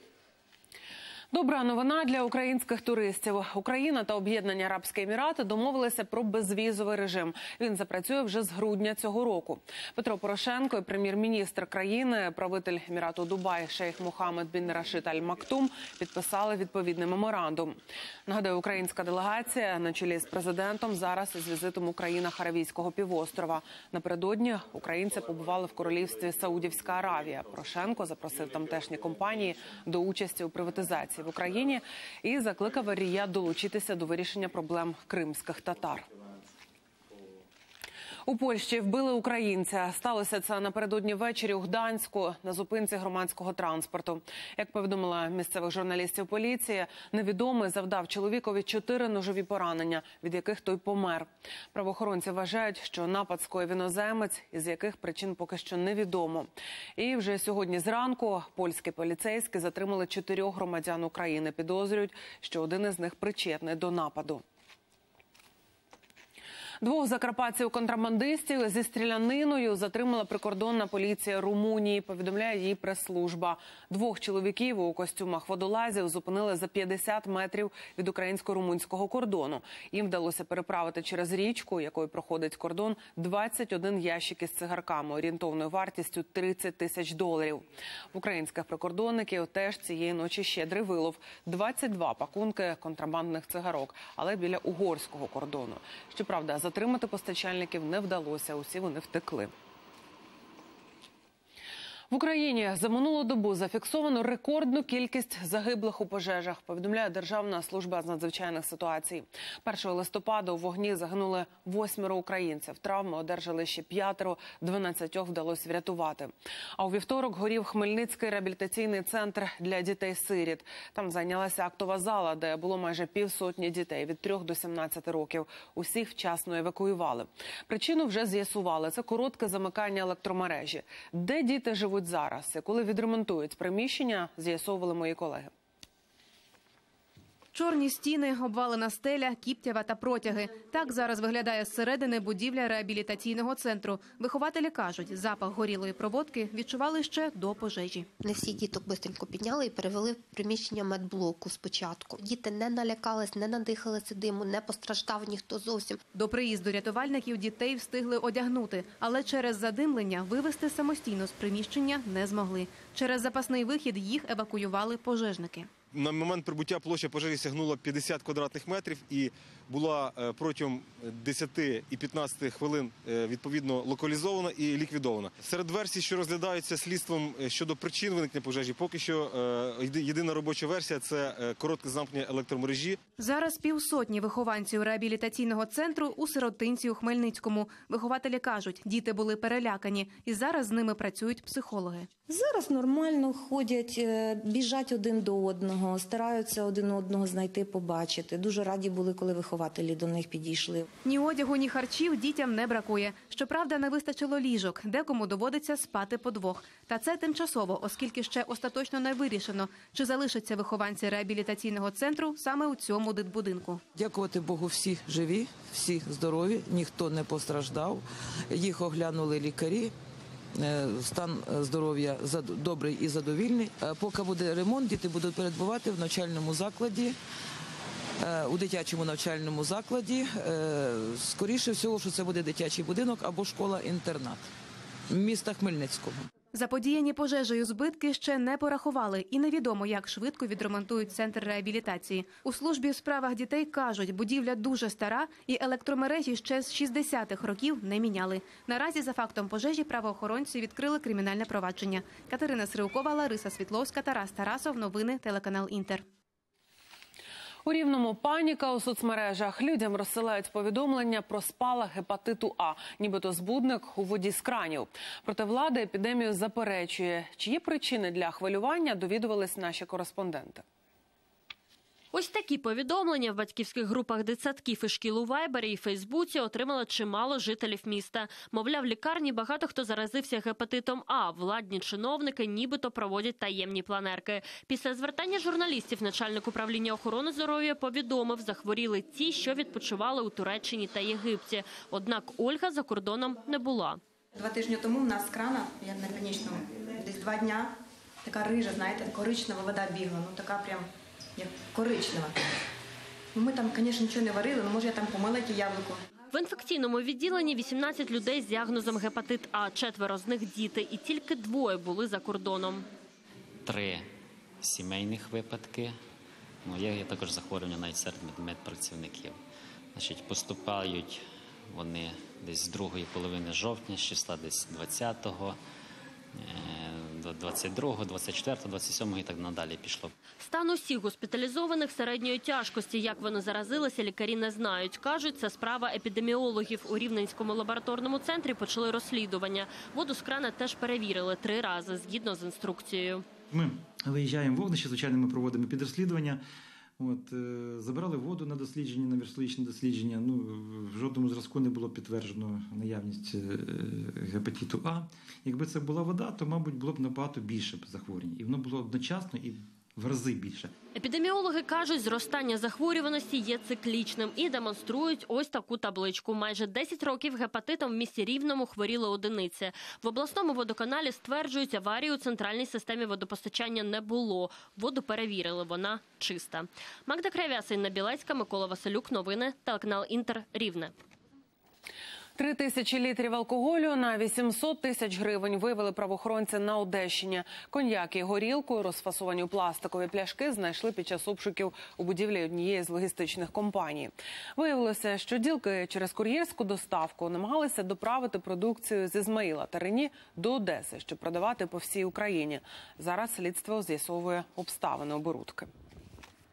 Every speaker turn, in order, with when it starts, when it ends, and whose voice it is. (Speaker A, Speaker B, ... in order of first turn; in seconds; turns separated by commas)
Speaker A: 1.3-36.1, Speaker A: 38.3-64.4, Speaker A: 66.8-99.5, Speaker A: 102.1-135.5, Speaker B: 137.5-148.1, Speaker C: 148.2-156.0, Speaker B: 156.1-165.7, Speaker D: 165.9-183.0, Speaker B: 183.2-192.1, Speaker E: 192.3-200.8, Speaker B: 201.1-213.8, Speaker F: 213.9-219.9, Speaker F: 220.6-227.2, Speaker F: 228.2-234.5, Speaker F: 235.1-236.3, Speaker B: 236.5-256.1, Speaker A: 257.7-270.6, Speaker G: 272.1-294.0, Speaker H: 294.3-302.4, Speaker H: 303.3-306.0, Speaker G: 306.3-312.9, Speaker I: 313.6-314.1, Speaker I: 314.6-316.0, Speaker I: 316.6-319.4, Speaker I: 319.9-325.6, Speaker I: 326.3-330.1, Speaker G: 330.4-343.2, Speaker J: 343.5-346.4, Speaker J: 347.0-360.7, Speaker G: 360.9-380.9, Speaker A: 382.4-405.7